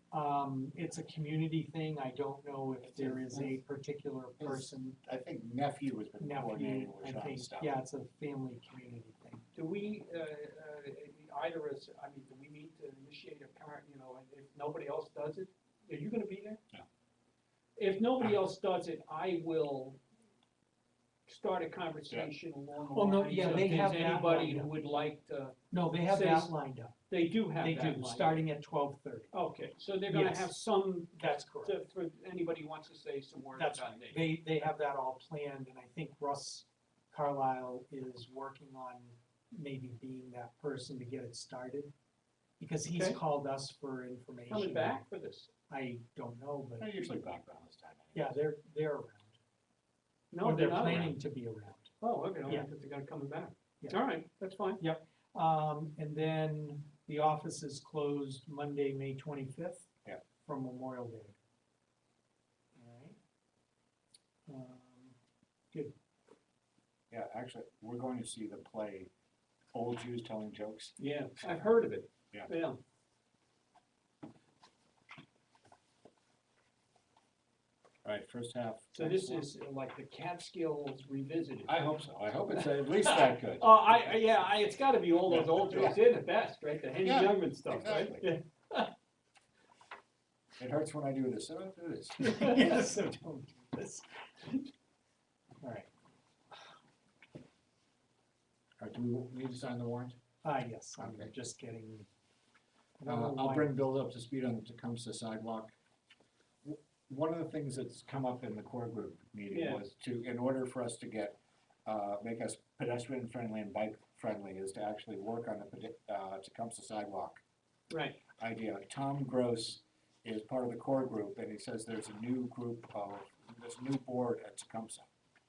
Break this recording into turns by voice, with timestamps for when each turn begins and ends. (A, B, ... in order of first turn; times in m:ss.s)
0:00.1-0:05.0 A
0:02.8-0:03.6 B
0:04.4-0:07.8 B
0:06.2-0:09.4 A
0:09.5-0:16.6 C
0:17.8-0:20.0 C
0:21.2-0:26.5 C
0:22.8-0:24.7 A
0:25.7-0:27.0 A
0:27.1-0:28.4 C
0:27.5-0:29.3 A
0:29.3-0:34.3 C
0:30.1-0:30.5 A
0:31.1-0:31.8 A
0:33.6-0:41.9 A
0:42.6-0:45.0 A
0:42.8-0:43.2 C
0:44.5-0:45.5 C
0:45.7-0:47.1 A
0:46.8-0:48.4 B
0:48.1-0:49.4 A
0:50.3-0:51.1 C
0:50.4-0:51.9 A
0:50.8-0:51.1 B
0:52.0-0:54.8 C
0:54.8-0:59.9 A
1:00.4-1:01.4 A
1:02.8-1:03.2 A
1:04.5-1:05.2 A
1:07.1-1:09.1 B
1:09.7-1:10.9 B
1:11.0-1:12.8 C
1:18.0-1:19.5 B
1:18.9-1:21.7 C
1:21.6-1:23.8 B
1:22.6-1:28.9 C
1:25.3-1:26.0 B
1:27.0-1:28.3 B
1:30.6-1:32.4 B
1:32.2-1:34.6 A
1:35.6-1:35.9 A
1:38.8-1:40.2 B
1:40.4-1:42.1 A
1:41.0-1:41.3 B
1:43.0-1:43.8 A
1:43.1-1:45.7 B
1:46.6-1:57.4 B
1:49.5-1:49.8 C
1:57.9-1:58.2 C
1:58.4-2:05.1 B